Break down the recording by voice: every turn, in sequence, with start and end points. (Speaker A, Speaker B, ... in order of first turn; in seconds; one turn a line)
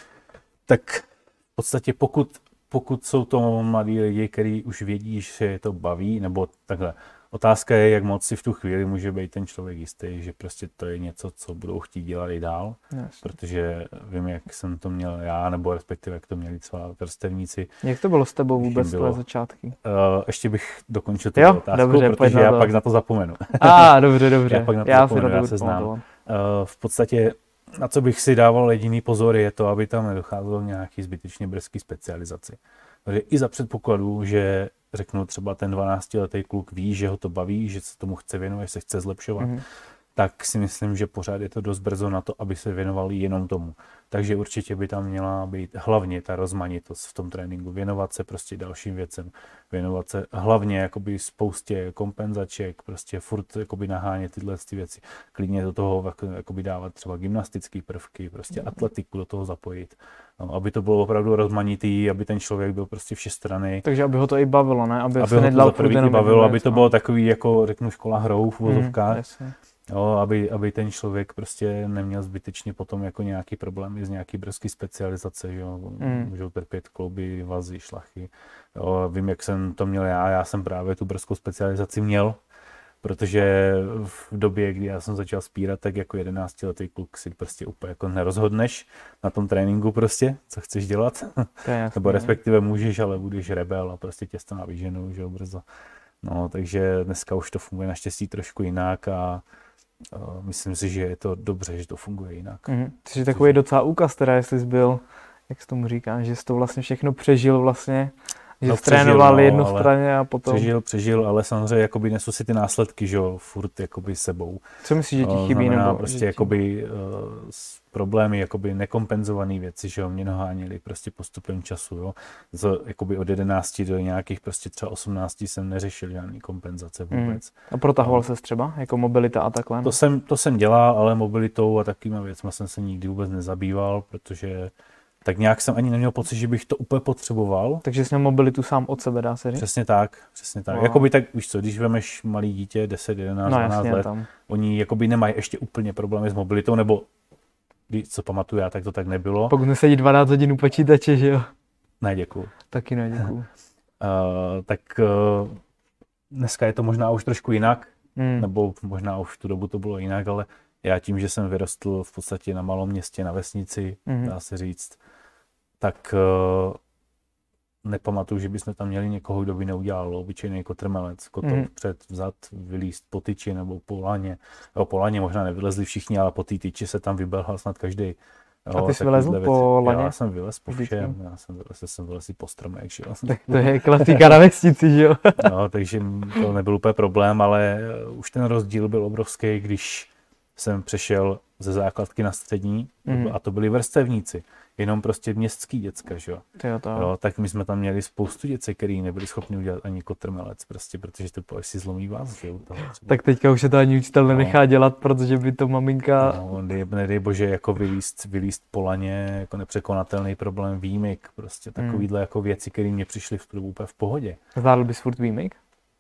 Speaker A: 0.7-17.7
Speaker B: 12.9-13.2
Speaker B: 17.8-19.8
Speaker A: 18.6-19.2
Speaker A: 19.8-39.6
Speaker B: 21.4-22.7
Speaker B: 23.6-26.0
Speaker A: 40.1-63.9
Speaker B: 63.8-66.9
Speaker A: 65.2-69.2
Speaker B: 68.6-69.5
Speaker A: 69.9-82.4
Speaker B: 76.0-76.3
Speaker A: 83.0-95.6
Speaker B: 91.6-92.3
Speaker A: 96.2-99.4
Speaker A: 100.1-102.7
Speaker B: 102.7-110.7
Speaker A: 103.2-103.6
Speaker A: 108.6-114.6
Speaker B: 114.8-116.5
Speaker A: 115.2-128.2
Speaker B: 127.1-129.9
Speaker A: 129.8-134.7
Speaker A: 135.2-137.8
Speaker B: 137.8-139.6
Speaker A: 139.5-147.1
Speaker B: 140.7-141.1
Speaker B: 143.4-144.3
Speaker A: 147.9-149.6
Speaker B: 149.5-151.5
Speaker A: 152.0-152.6
Speaker B: 152.7-153.5
Speaker A: 154.0-155.6
Speaker A: 156.3-165.0
Speaker B: 158.2-158.5
Speaker B: 164.1-164.3
Speaker A: 165.8-166.8
Speaker A: 167.8-184.3
Speaker B: 171.4-171.7
Speaker B: 178.7-180.1
Speaker B: 180.7-181.1
Speaker B: 183.3-185.5
Speaker A: 185.4-203.2
Speaker B: 193.1-193.3
Speaker B: 196.6-197.1
Speaker B: 203.1-206.4
Speaker A: 204.3-204.6
Speaker A: 206.2-214.4
Speaker B: 211.8-212.1
Speaker B: 214.6-215.6